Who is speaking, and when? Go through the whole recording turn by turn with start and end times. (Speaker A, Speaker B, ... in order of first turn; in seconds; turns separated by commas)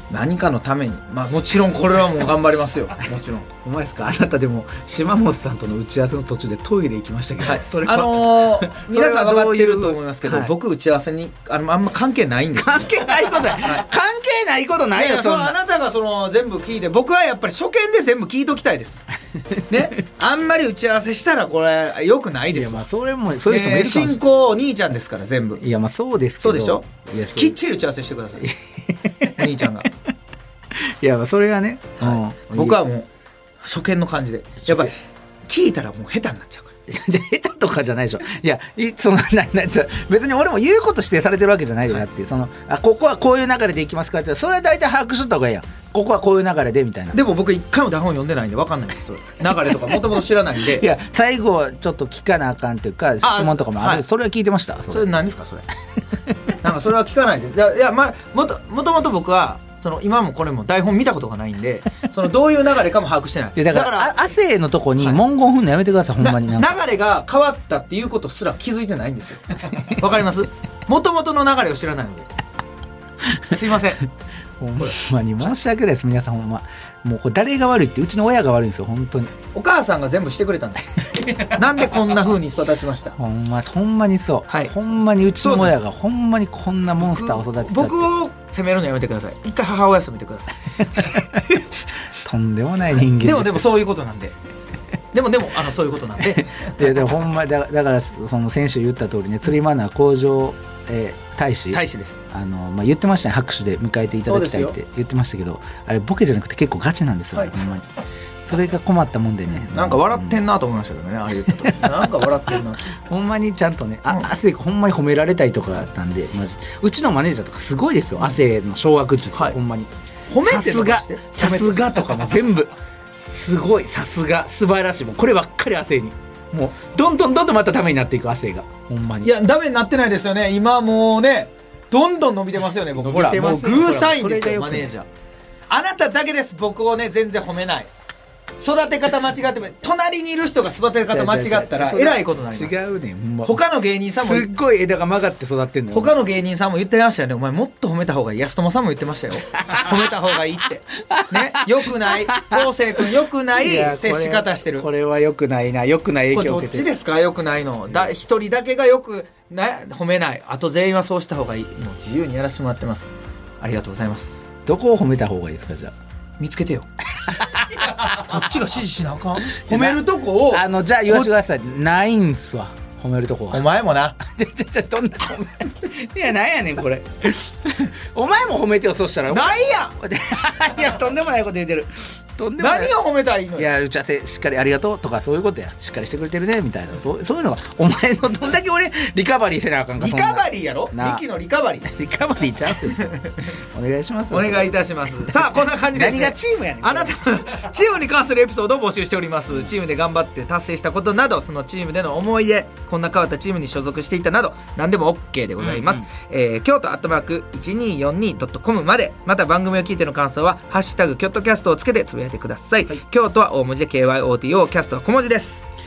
Speaker A: 0.1-3.5, Speaker B: 3.5-10.5, Speaker A: 7.4-13.9, Speaker B: 12.5-15.6, Speaker A: 14.9-19.1, Speaker A: 19.7-22.8, Speaker B: 22.5-24.2, Speaker A: 23.4-25.6, Speaker B: 25.6-27.6, Speaker A: 26.4-28.5, Speaker B: 28.4-29.5, Speaker A: 29.2-29.9, Speaker B: 30.7-32.8, Speaker A: 32.0-33.1, Speaker A: 33.6-34.9, Speaker B: 34.6-34.9, Speaker A: 35.5-36.7, Speaker B: 36.9-47.2, Speaker A: 47.1-50.8, Speaker B: 50.6-55.1, Speaker A: 53.2-54.0, Speaker A: 54.9-55.7, Speaker A: 56.5-64.2, Speaker B: 63.5-66.7, Speaker A: 66.2-72.3, Speaker B: 73.3-73.6, Speaker A: 73.5-74.0, Speaker B: 74.6-79.3, Speaker A: 79.5-83.2, Speaker B: 83.2-88.1, Speaker A: 84.5-84.7, Speaker A: 85.4-85.8, Speaker A: 87.0-91.3, Speaker B: 92.2-93.7, Speaker A: 93.2-94.3, Speaker A: 95.1-96.8, Speaker B: 96.2-107.9, Speaker A: 101.7-102.2, Speaker A: 104.2-104.8, Speaker B: 108.4-110.4, Speaker A: 109.6-112.8, Speaker B: 112.9-122.7, Speaker A: 120.3-122.3, Speaker B: 123.3-129.3, Speaker A: 129.2-135.1, Speaker B: 132.9-134.9, Speaker A: 135.7-137.9, Speaker A: 138.6-142.7, Speaker B: 141.1-143.6, Speaker A: 143.4-144.5, Speaker B: 144.1-146.1, Speaker A: 145.9-154.8, Speaker B: 149.6-150.1, Speaker B: 150.9-152.7, Speaker B: 153.5-156.9, Speaker A: 156.3-164.4, Speaker B: 164.7-165.9, Speaker A: 166.4-166.9, Speaker B: 167.3-168.4, Speaker A: 167.6-171.3, Speaker B: 169.6-173.7, Speaker A: 173.5-174.2, Speaker B: 174.2-183.0, Speaker A: 179.3-179.9, Speaker A: 182.6-183.7, Speaker B: 183.6-191.2, Speaker A: 190.0-191.9, Speaker B: 191.8-194.8, Speaker A: 193.0-193.3, Speaker A: 194.3-215.7, Speaker B: 195.9-197.2, Speaker B: 205.6-206.0